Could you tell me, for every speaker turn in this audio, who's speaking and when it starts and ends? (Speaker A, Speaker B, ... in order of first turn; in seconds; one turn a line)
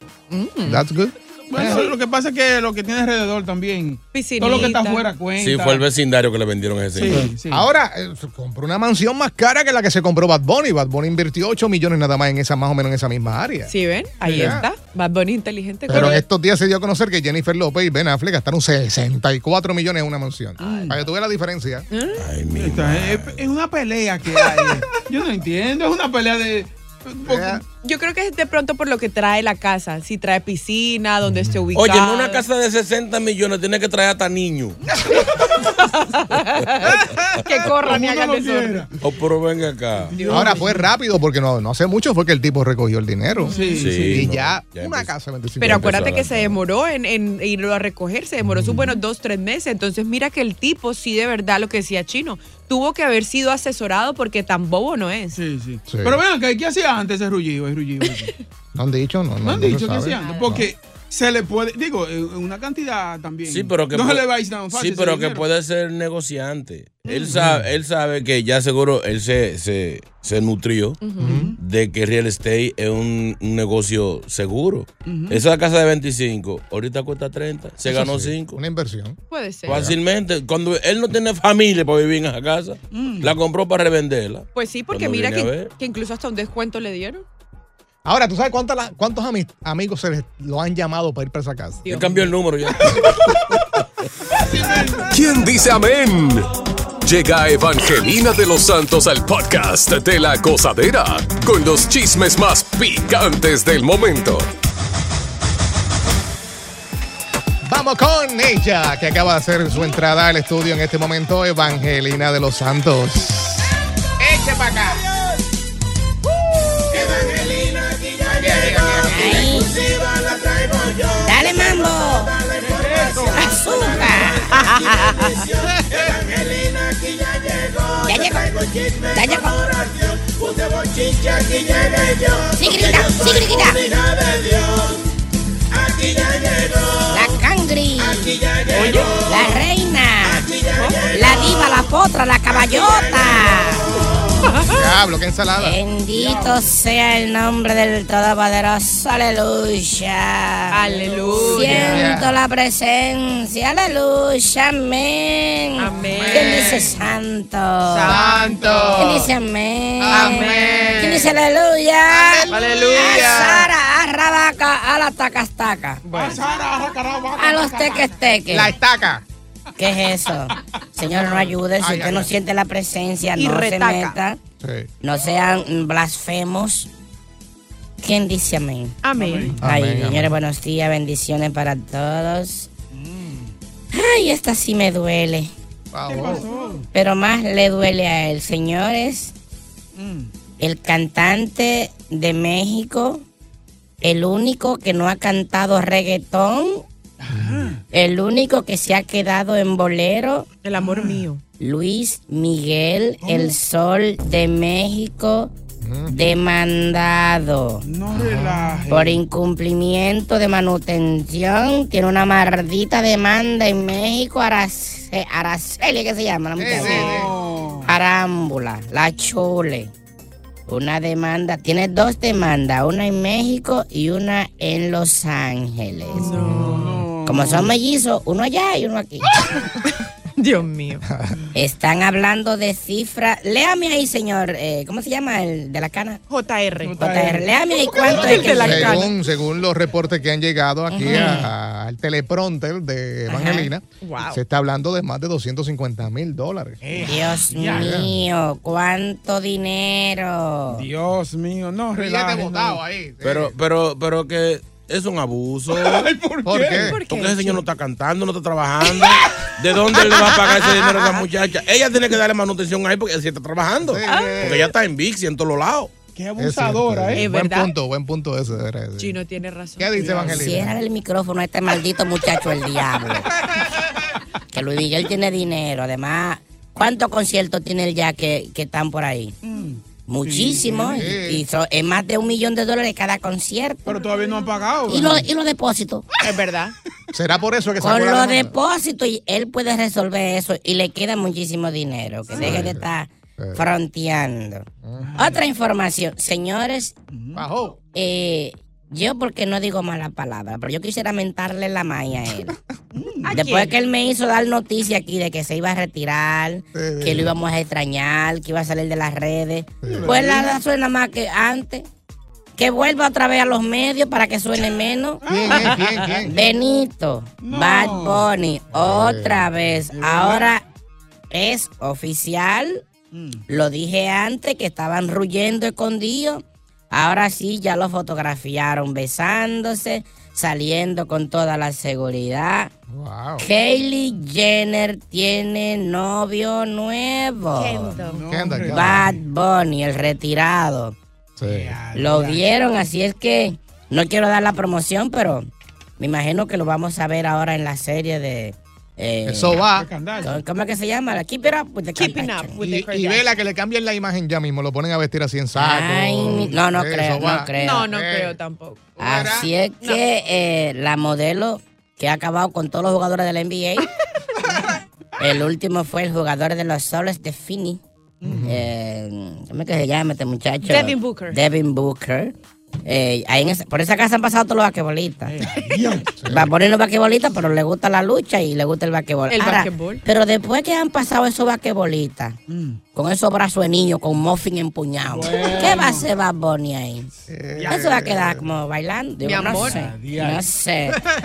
Speaker A: 0.3-0.8
Speaker B: 0.6-1.9
Speaker C: 1.5-5.8
Speaker A: 4.1-5.0
Speaker D: 5.4-7.3
Speaker C: 6.9-7.7
Speaker B: 7.1-14.7
Speaker A: 13.7-16.2
Speaker C: 14.2-14.6
Speaker B: 15.9-21.9
Speaker C: 20.6-21.0
Speaker A: 21.9-22.2
Speaker D: 22.1-23.5
Speaker C: 22.5-27.6
Speaker B: 27.2-27.6
Speaker A: 27.8-32.4
Speaker B: 31.2-31.6
Speaker D: 31.7-34.8
Speaker C: 34.9-35.6
Speaker A: 35.8-38.9
Speaker C: 36.8-39.0
Speaker D: 39.0-40.1
Speaker C: 40.0-40.9
Speaker A: 40.1-40.6
Speaker B: 40.3-46.0
Speaker C: 43.4-44.3
Speaker A: 43.5-43.9
Speaker D: 43.7-46.6
Speaker A: 45.6-55.4
Speaker B: 48.4-48.9
Speaker C: 55.3-58.3
Speaker B: 55.9-56.2
Speaker B: 58.7-60.7
Speaker C: 59.4-65.5
Speaker A: 60.1-60.6
Speaker D: 63.5-71.0
Speaker C: 67.0-67.5
Speaker B: 67.3-67.7
Speaker A: 71.0-71.4
Speaker B: 71.2-71.5
Speaker C: 71.2-71.5
Speaker D: 71.6-78.6
Speaker C: 75.0-75.4
Speaker B: 77.9-80.0
Speaker A: 79.3-79.8
Speaker D: 79.7-85.7
Speaker C: 82.9-83.4
Speaker A: 84.5-87.2
Speaker B: 88.0-91.8
Speaker A: 91.8-92.3
Speaker D: 91.9-93.3
Speaker C: 94.4-95.2
Speaker E: 95.1-96.5
Speaker E: 97.0-104.5
Speaker B: 107.6-115.0
Speaker D: 116.9-119.2
Speaker B: 118.4-119.4
Speaker F: 119.0-119.7
Speaker D: 119.8-121.3
Speaker F: 121.2-122.3
Speaker D: 122.4-123.3
Speaker C: 122.6-124.0
Speaker F: 123.2-124.7
Speaker A: 124.5-125.4
Speaker D: 124.6-135.0
Speaker F: 128.0-129.6
Speaker F: 132.5-133.8
Speaker D: 135.7-137.3
Speaker F: 137.1-138.4
Speaker D: 138.0-139.6
Speaker C: 138.8-139.2
Speaker A: 138.8-139.1
Speaker F: 139.2-140.5
Speaker D: 140.3-141.6
Speaker F: 141.1-143.9
Speaker D: 142.7-143.7
Speaker A: 144.5-144.8
Speaker B: 144.6-146.5
Speaker F: 145.6-158.2
Speaker A: 150.7-152.1
Speaker B: 151.6-152.3
Speaker A: 155.8-156.8
Speaker B: 156.1-156.9
Speaker A: 157.9-159.2
Speaker B: 158.1-159.3
Speaker F: 158.9-166.0
Speaker B: 160.0-161.3
Speaker A: 160.1-161.3
Speaker B: 162.1-163.7
Speaker A: 162.5-163.7
Speaker A: 166.0-166.4
Speaker C: 166.1-168.2
Speaker F: 167.3-168.7
Speaker B: 168.5-169.2
Speaker F: 169.8-174.4
Speaker C: 171.2-171.5
Speaker B: 171.8-172.3
Speaker A: 173.3-174.2
Speaker B: 174.6-174.9
Speaker F: 175.0-176.9
Speaker F: 178.0-179.0
Speaker A: 179.0-179.6
Speaker C: 179.1-179.6
Speaker F: 179.6-182.7
Speaker B: 179.6-180.3
Speaker C: 182.9-183.6
Speaker F: 183.9-185.5
Speaker B: 185.9-186.5
Speaker C: 186.1-186.9
Speaker F: 186.9-189.3
Speaker C: 189.9-190.3
Speaker F: 190.6-193.2
Speaker F: 194.0-196.8
Speaker C: 197.2-197.8
Speaker B: 197.3-197.7
Speaker F: 197.9-200.5
Speaker A: 200.6-201.4
Speaker C: 200.7-201.2
Speaker F: 201.6-205.5
Speaker C: 203.2-203.5
Speaker B: 205.8-206.1
Speaker F: 206.1-207.8
Speaker C: 207.8-209.2
Speaker B: 208.1-208.8
Speaker F: 208.9-217.3
Speaker B: 216.6-217.3
Speaker C: 216.7-217.9
Speaker F: 217.8-219.9
Speaker F: 220.7-226.4
Speaker C: 226.2-227.7
Speaker A: 226.2-226.7
Speaker B: 226.4-226.9
Speaker F: 227.2-229.4
Speaker A: 229.8-231.0
Speaker B: 231.1-231.4
Speaker F: 231.5-236.2
Speaker A: 236.3-237.0
Speaker C: 236.8-239.0
Speaker F: 237.0-239.0
Speaker A: 238.1-239.1
Speaker B: 238.4-246.8
Speaker F: 240.9-241.5
Speaker A: 241.1-241.4
Speaker F: 243.3-243.7
Speaker A: 244.0-244.4
Speaker C: 246.8-248.0
Speaker F: 247.0-250.9
Speaker B: 247.7-248.1
Speaker C: 250.7-252.8
Speaker B: 251.9-253.5
Speaker D: 253.2-256.1
Speaker C: 255.7-257.0
Speaker B: 256.4-257.0
Speaker A: 256.8-257.6
Speaker D: 257.1-265.9
Speaker C: 259.4-260.0
Speaker A: 260.1-260.4
Speaker B: 263.8-264.7
Speaker A: 264.1-264.5
Speaker C: 266.1-267.3
Speaker B: 266.4-269.2
Speaker A: 267.2-267.7
Speaker A: 269.0-270.1
Speaker B: 269.8-270.8
Speaker C: 269.9-270.7
Speaker F: 270.1-273.3
Speaker F: 274.5-279.3
Speaker C: 279.4-281.1
Speaker F: 280.1-284.0
Speaker B: 280.9-281.4
Speaker C: 283.9-285.2
Speaker F: 284.9-286.1
Speaker A: 286.2-286.7
Speaker B: 287.1-288.5
Speaker F: 287.8-296.9
Speaker B: 292.4-292.9
Speaker B: 293.4-293.7
Speaker B: 294.8-295.2
Speaker C: 295.0-295.4
Speaker C: 297.1-297.5
Speaker B: 297.3-297.8
Speaker F: 297.9-302.5
Speaker C: 302.9-303.3
Speaker A: 303.2-303.7
Speaker F: 303.3-311.9
Speaker B: 306.7-307.3
Speaker B: 309.8-310.2
Speaker C: 309.8-310.6
Speaker F: 312.6-315.2
Speaker C: 315.2-316.3
Speaker B: 315.2-316.3
Speaker F: 316.2-320.6
Speaker C: 317.4-318.3
Speaker B: 318.7-319.5
Speaker C: 319.9-320.5
Speaker F: 321.3-322.8
Speaker C: 323.1-323.4
Speaker F: 323.5-332.7
Speaker B: 332.9-333.5
Speaker F: 333.4-338.0
Speaker A: 337.5-338.2
Speaker C: 338.0-339.2
Speaker B: 338.3-339.1
Speaker F: 338.6-340.9
Speaker B: 341.4-341.8
Speaker C: 341.4-342.4
Speaker F: 341.9-345.5
Speaker F: 346.0-349.7
Speaker B: 349.2-349.9
Speaker C: 349.7-350.4
Speaker F: 350.2-352.6
Speaker A: 351.9-353.3
Speaker B: 352.6-358.4
Speaker F: 355.5-357.9
Speaker C: 356.2-356.6
Speaker A: 357.6-360.0
Speaker F: 359.0-363.9
Speaker B: 359.0-359.5
Speaker F: 365.2-367.8
Speaker C: 368.2-368.5
Speaker B: 368.2-368.6
Speaker F: 368.4-372.3
Speaker A: 370.6-371.4
Speaker F: 372.8-375.5
Speaker C: 375.2-376.2
Speaker B: 376.1-376.5
Speaker F: 376.2-382.4
Speaker A: 379.3-380.0
Speaker C: 382.5-382.8
Speaker F: 382.9-387.1
Speaker C: 385.1-386.1
Speaker B: 387.3-388.5
Speaker C: 387.5-387.9
Speaker F: 387.6-391.0
Speaker A: 389.2-389.8
Speaker C: 389.4-390.4